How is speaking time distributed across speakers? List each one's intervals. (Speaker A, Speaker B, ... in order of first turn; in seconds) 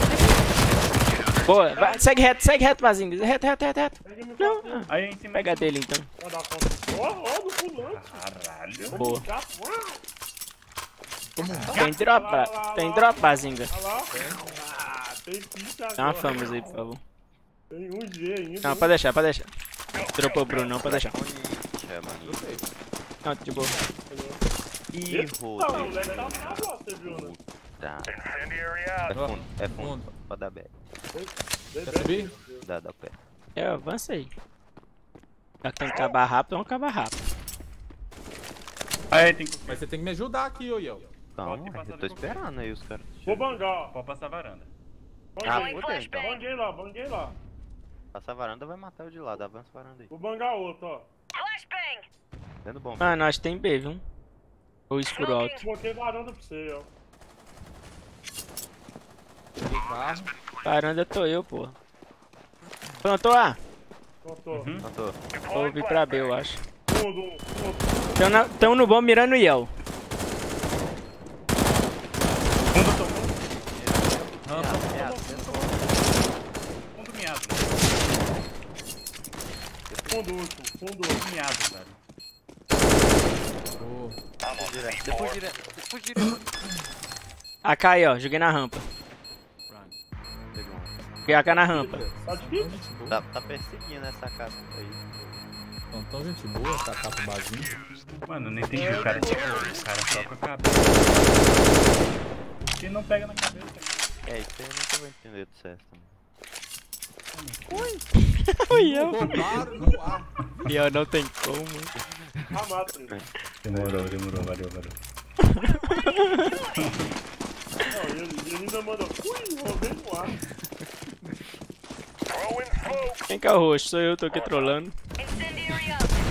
Speaker A: 1.4-6.1, 8.9-9.2, 11.7-13.7, 16.0-17.0, 18.6-19.5, 20.2-21.2, 23.2-23.8, 33.6-34.3, 35.6-37.2, 53.0-54.0, 54.9-55.6, 60.6-61.8, 63.0-63.6, 65.5-66.6, 68.2-69.7, 87.6-88.8, 91.3-92.0, 108.5-109.4, 110.7-111.9, 115.4-116.5, 123.3-125.0
Speaker B: 1.8-2.1, 4.0-4.9, 6.2-8.2, 8.8-10.0, 11.7-16.8, 17.7-19.0, 24.1-24.4, 25.1-27.4, 31.1-32.7, 43.3-44.0, 45.4-47.4, 50.1-51.1, 55.6-56.9, 64.2-64.7, 66.9-68.4, 74.9-75.8, 80.1-81.2, 91.7-92.8, 98.7-99.9, 112.5-113.2, 117.9-120.4
Speaker C: 4.9-5.7, 7.8-9.0, 39.1-39.9, 41.4-42.5, 43.9-44.7, 64.5-64.9, 72.7-73.4, 74.5-75.7, 77.0-78.0, 81.2-82.0, 98.2-101.8, 102.7-104.0, 107.3-108.0, 109.3-109.9, 113.6-115.0, 116.8-117.1
Speaker D: 11.4-11.8, 14.1-14.4, 22.2-22.7, 29.1-30.1, 31.8-32.3, 39.7-41.1, 59.6-60.3, 74.5-74.9, 83.8-84.2, 91.5-93.3, 95.9-97.8, 107.7-108.1, 108.7-110.8
Speaker E: 11.5-11.9, 20.7-22.4, 24.9-28.3, 29.1-30.7, 32.6-33.2, 41.4-43.6, 45.4-46.5, 48.1-50.1, 52.6-53.3, 64.8-65.2, 73.5-76.0, 79.9-80.3, 84.5-86.4, 90.5-91.1, 93.1-95.4, 104.2-106.2, 112.2-113.3, 120.8-121.4
Speaker F: 45.4-46.4, 51.3-52.1, 55.1-55.7, 115.6-116.9, 125.2-126.2